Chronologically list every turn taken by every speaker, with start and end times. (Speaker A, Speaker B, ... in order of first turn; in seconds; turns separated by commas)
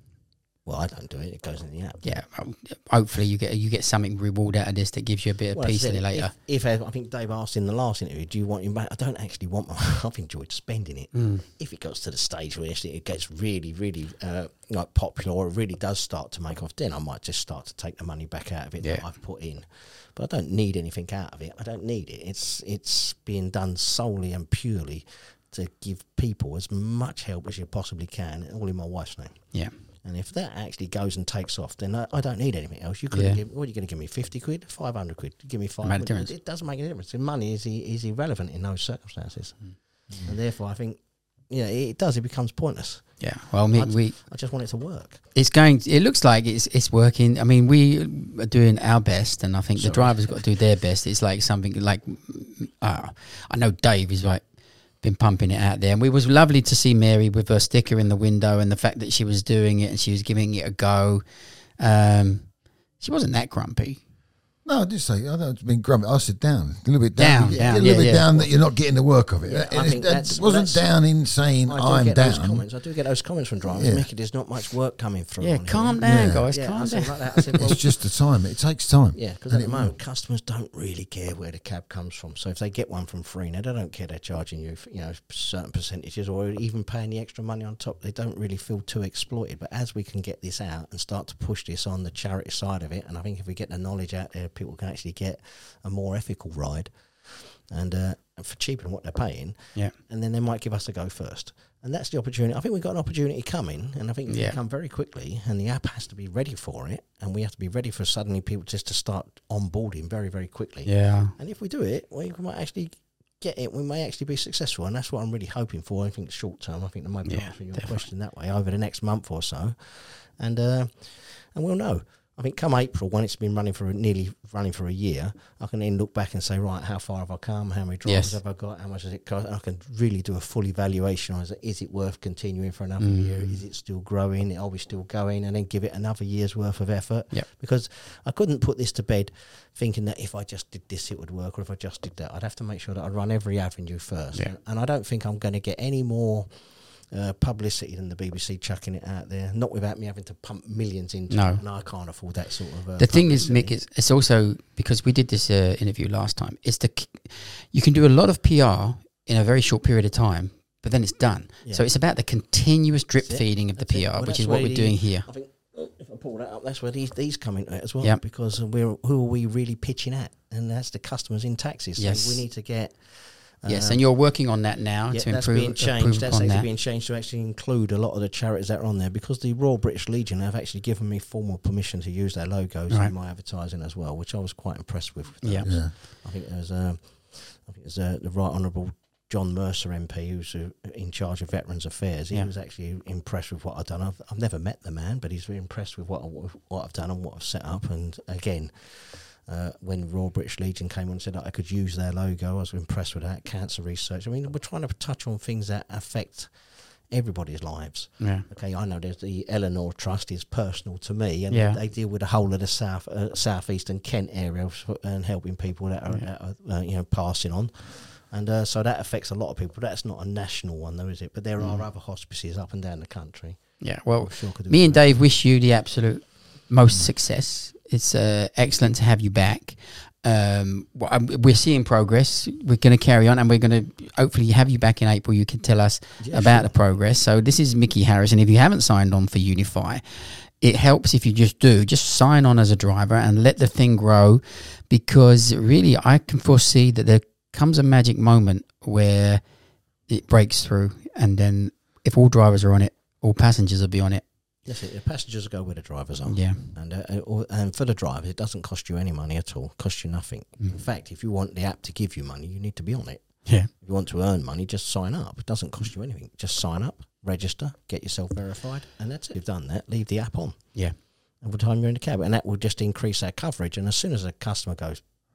Speaker A: 0.7-2.2, Speaker B: 2.0-6.3, Speaker A: 5.5-29.5, Speaker B: 11.1-11.4, Speaker A: 30.0-41.0, Speaker B: 33.1-33.4, Speaker B: 35.8-36.3, Speaker A: 41.5-45.2, Speaker B: 43.2-44.1, Speaker B: 45.4-54.4, Speaker A: 49.8-50.3, Speaker B: 55.0-61.2, Speaker B: 61.8-64.0, Speaker C: 64.6-72.6, Speaker B: 67.2-68.5, Speaker A: 67.5-68.5, Speaker A: 69.4-70.9, Speaker A: 71.7-77.8, Speaker C: 73.6-74.1, Speaker B: 75.4-77.6, Speaker C: 76.0-76.5, Speaker C: 77.5-79.9, Speaker A: 79.1-146.5, Speaker B: 104.3-104.6, Speaker B: 110.9-111.3, Speaker B: 117.3-118.1, Speaker B: 128.1-128.4, Speaker B: 133.0-133.6, Speaker A: 147.1-153.7, Speaker B: 151.3-151.6, Speaker B: 153.0-165.3, Speaker A: 163.2-174.0, Speaker B: 172.0-172.4, Speaker B: 173.7-176.7, Speaker A: 175.1-206.5, Speaker B: 185.4-185.7, Speaker C: 185.6-185.9, Speaker A: 207.1-225.1, Speaker B: 211.5-211.8, Speaker B: 221.6-221.8, Speaker B: 223.8-240.0, Speaker A: 236.2-236.7, Speaker B: 240.6-249.4, Speaker B: 250.1-254.2, Speaker A: 254.7-270.8, Speaker B: 256.3-256.6, Speaker A: 271.4-275.0